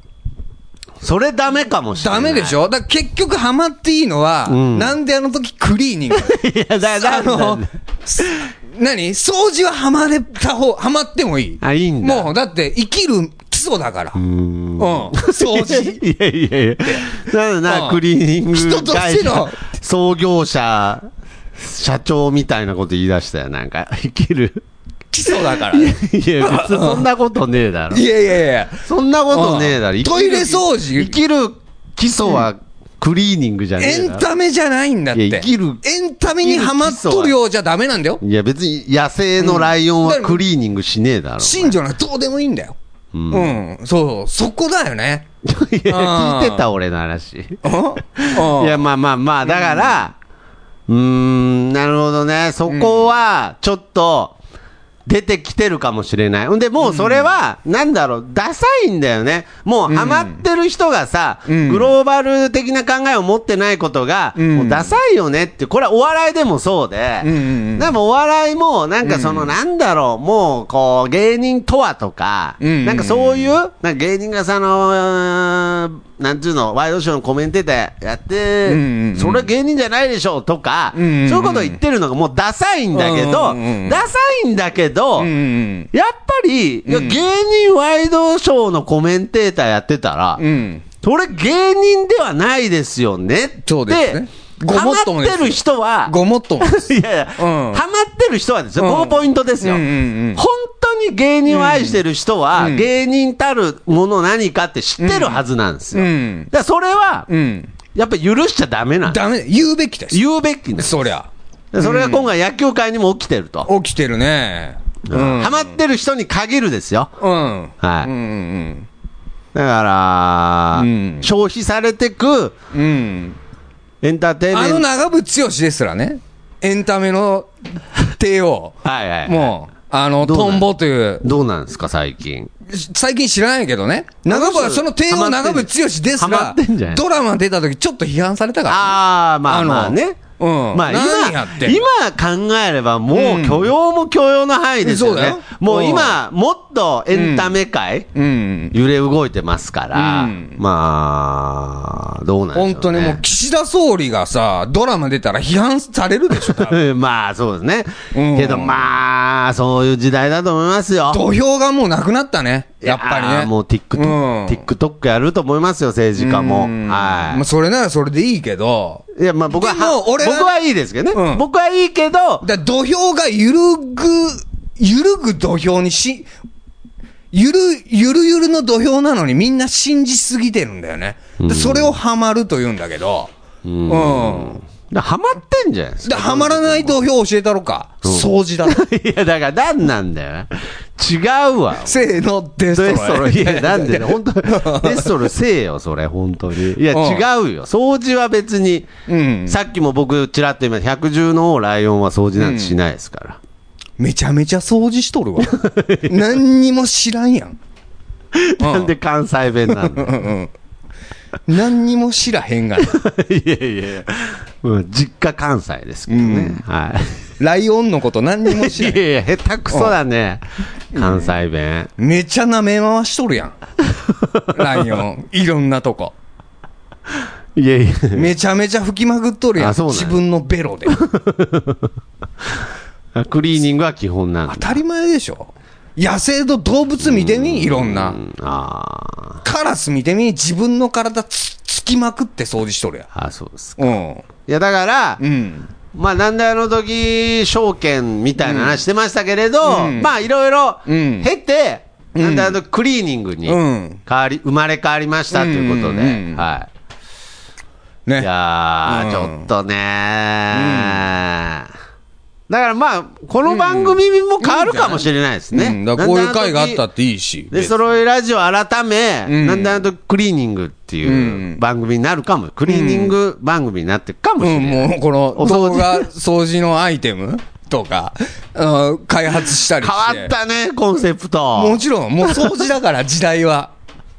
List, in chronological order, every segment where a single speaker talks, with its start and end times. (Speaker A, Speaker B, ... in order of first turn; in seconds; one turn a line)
Speaker A: 1.0-2.5
Speaker B: 2.0-14.2
Speaker A: 4.5-5.0
Speaker A: 6.1-8.3
Speaker A: 11.6-12.3
Speaker A: 14.2-24.6
Speaker B: 14.8-16.0
Speaker B: 17.7-18.0
Speaker B: 18.5-19.7
Speaker B: 25.1-27.1
Speaker A: 25.5-28.1
Speaker B: 27.9-31.1
Speaker A: 28.8-34.2
Speaker B: 33.8-38.2
Speaker A: 35.1-35.8
Speaker A: 36.4-37.4
Speaker A: 38.2-41.8
Speaker B: 39.4-40.4
Speaker B: 41.4-42.8
Speaker A: 43.1-43.6
Speaker B: 43.3-45.3
Speaker A: 45.4-47.6
Speaker B: 45.9-46.7
Speaker B: 47.6-48.8
Speaker A: 48.1-50.2
Speaker B: 49.4-49.9
Speaker A: 50.9-54.4
Speaker B: 52.7-53.0
Speaker A: 55.0-85.3
Speaker B: 56.8-57.3
Speaker B: 59.9-60.4
Speaker B: 61.5-61.9
Speaker B: 64.4-64.9
Speaker B: 67.2-67.9
Speaker B: 69.0-69.5
Speaker B: 72.6-73.5
Speaker B: 78.7-79.5
Speaker B: 80.9-81.8
Speaker B: 82.9-84.0
Speaker B: 85.2-85.9
Speaker A: 85.9-90.4
Speaker B: 86.9-87.2
Speaker B: 90.4-90.8
Speaker A: 91.0-107.3
Speaker B: 93.6-96.9
Speaker B: 97.4-97.8
Speaker B: 98.8-100.4
Speaker B: 101.5-102.0
Speaker B: 102.6-102.9
Speaker B: 105.0-105.4
Speaker B: 105.9-106.5
Speaker B: 107.3-107.7
Speaker A: 107.9-109.2
Speaker B: 109.1-110.2
Speaker A: 110.1-111.1
Speaker B: 110.8-112.3
Speaker A: 111.7-113.7
Speaker B: 113.7-115.8
Speaker A: 115.1-117.1
Speaker B: 117.2-118.9
Speaker A: 117.8-118.1
Speaker A: 119.5-122.5
Speaker B: 120.8-121.3
Speaker B: 122.7-123.4
Speaker A: 124.0-124.8
Speaker B: 124.5-131.3
Speaker A: 128.8-129.5
Speaker A: 130.2-130.7
Speaker A: 131.2-132.5
Speaker B: 132.7-141.8
Speaker A: 134.3-137.0
Speaker A: 138.7-140.2
Speaker A: 140.7-148.1
Speaker B: 143.1-143.7
Speaker B: 144.8-146.2
Speaker B: 147.1-147.6
Speaker B: 148.1-148.7
Speaker A: 148.7-153.2
Speaker B: 149.9-150.6
Speaker B: 152.5-156.8
Speaker A: 156.4-161.2
Speaker B: 158.1-158.8
Speaker B: 161.1-164.6
Speaker A: 162.8-167.4
Speaker B: 166.2-170.6
Speaker A: 169.2-172.4
Speaker B: 171.1-171.4
Speaker B: 172.4-176.3
Speaker B: 177.3-183.3
Speaker A: 181.4-181.9
Speaker A: 183.6-186.9
Speaker B: 183.9-184.6
Speaker B: 186.0-188.8
Speaker A: 188.0-192.0
Speaker B: 191.8-195.3
Speaker A: 192.7-198.9
Speaker B: 196.9-197.2
Speaker B: 199.1-199.6
Speaker A: 199.4-203.4
Speaker B: 202.4-202.8
Speaker B: 204.0-207.6
Speaker A: 205.5-206.1
Speaker A: 208.3-210.2
Speaker B: 208.6-208.9
Speaker B: 209.7-210.5
Speaker B: 211.5-213.0
Speaker A: 212.8-217.2
Speaker B: 216.1-216.6
Speaker B: 217.4-219.0
Speaker A: 218.5-221.9
Speaker B: 219.7-219.9
Speaker B: 220.9-221.4
Speaker B: 222.0-223.6
Speaker B: 224.5-226.1
Speaker A: 227.6-228.3
Speaker B: 228.1-231.0
Speaker A: 229.6-230.2
Speaker A: 230.9-231.9
Speaker A: 233.1-234.8
Speaker B: 234.5-238.2
Speaker A: 237.0-239.4
Speaker B: 239.4-243.1
Speaker A: 243.1-245.2
Speaker B: 243.8-244.2
Speaker B: 245.2-245.7
Speaker A: 245.9-256.7
Speaker B: 248.4-248.8
Speaker B: 249.6-250.1
Speaker B: 250.9-251.3
Speaker B: 252.2-252.6
Speaker B: 253.4-254.0
Speaker B: 255.3-256.4
Speaker A: 258.2-261.7
Speaker B: 258.9-259.5
Speaker B: 260.5-261.0
Speaker A: 262.5-266.9
Speaker B: 263.4-267.7
Speaker A: 267.5-276.1
Speaker B: 269.3-269.8
Speaker B: 271.1-271.6
Speaker B: 272.7-273.1
Speaker B: 274.4-280.3
Speaker A: 279.7-282.5
Speaker B: 281.6-283.7